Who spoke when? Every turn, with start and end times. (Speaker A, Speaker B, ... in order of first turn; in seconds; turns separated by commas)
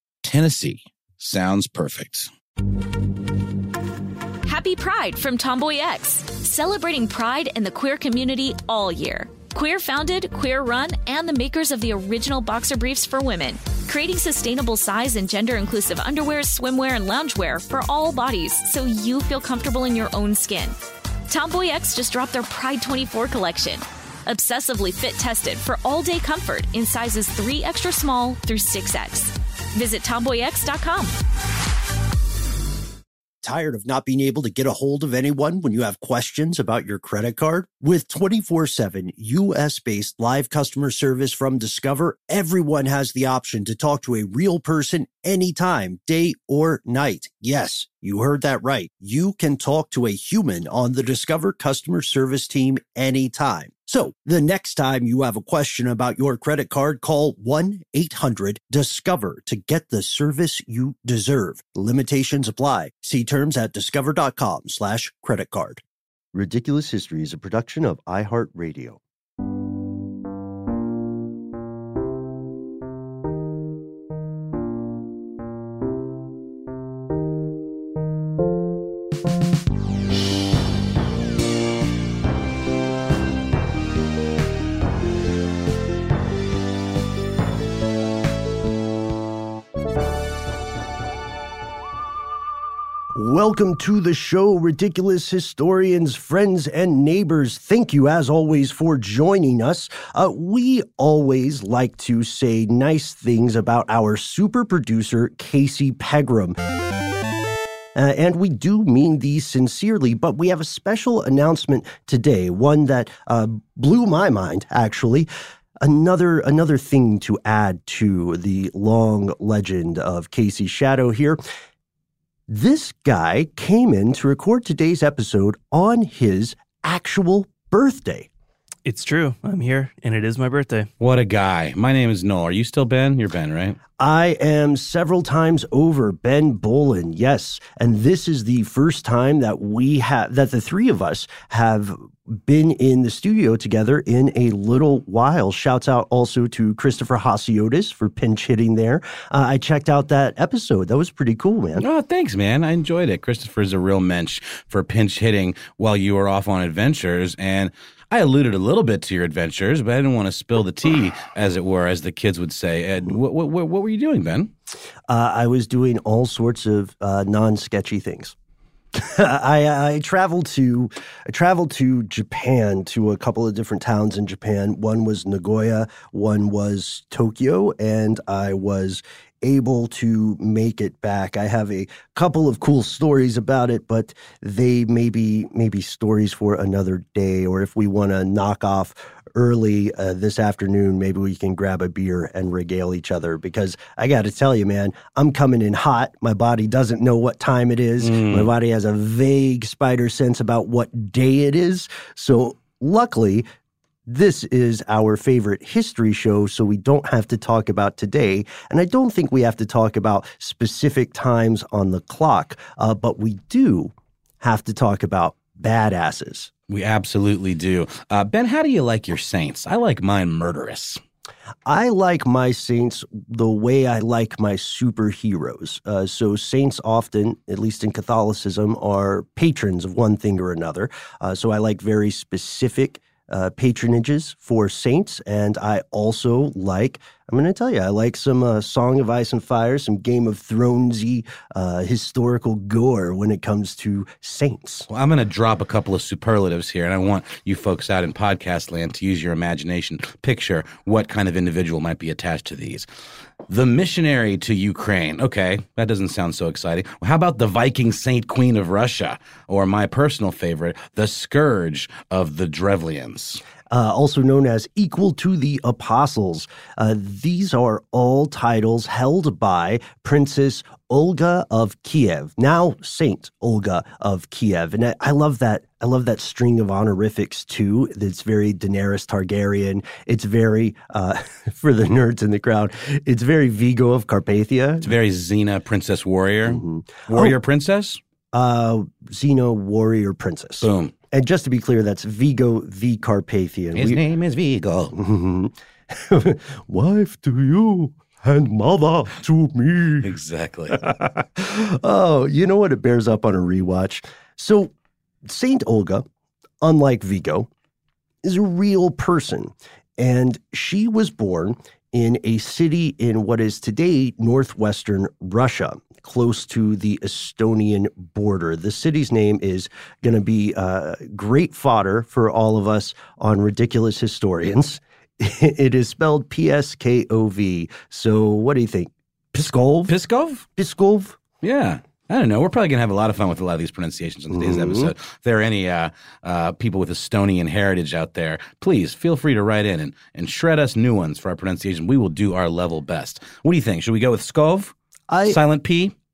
Speaker A: 0.2-2.3, Speaker B: 4.5-20.8, Speaker B: 21.3-31.2, Speaker C: 33.4-65.8, Speaker C: 66.3-69.0, Speaker C: 93.1-106.6, Speaker C: 108.0-115.3, Speaker C: 115.8-121.4, Speaker C: 122.5-128.3, Speaker D: 128.8-130.9, Speaker A: 131.0-133.8, Speaker C: 134.0-151.8, Speaker A: 151.8-164.5, Speaker C: 165.1-168.3, Speaker C: 168.9-203.4, Speaker A: 198.0-198.5, Speaker C: 204.1-216.5, Speaker A: 216.7-221.0, Speaker C: 221.7-244.9, Speaker A: 244.9-252.8, Speaker A: 253.5-263.4, Speaker C: 263.7-284.9, Speaker A: 284.8-288.0, Speaker C: 286.4-287.3, Speaker C: 288.3-294.0, Speaker A: 290.6-290.9, Speaker A: 293.7-294.9, Speaker C: 294.9-300.1, Speaker A: 300.0-300.8, Speaker C: 300.7-304.7, Speaker C: 305.2-306.0, Speaker C: 306.6-307.5, Speaker C: 308.2-329.9, Speaker A: 329.9-330.4, Speaker C: 330.6-331.2, Speaker A: 331.4-344.7, Speaker C: 334.3-334.9, Speaker C: 345.1-345.4, Speaker A: 345.2-345.9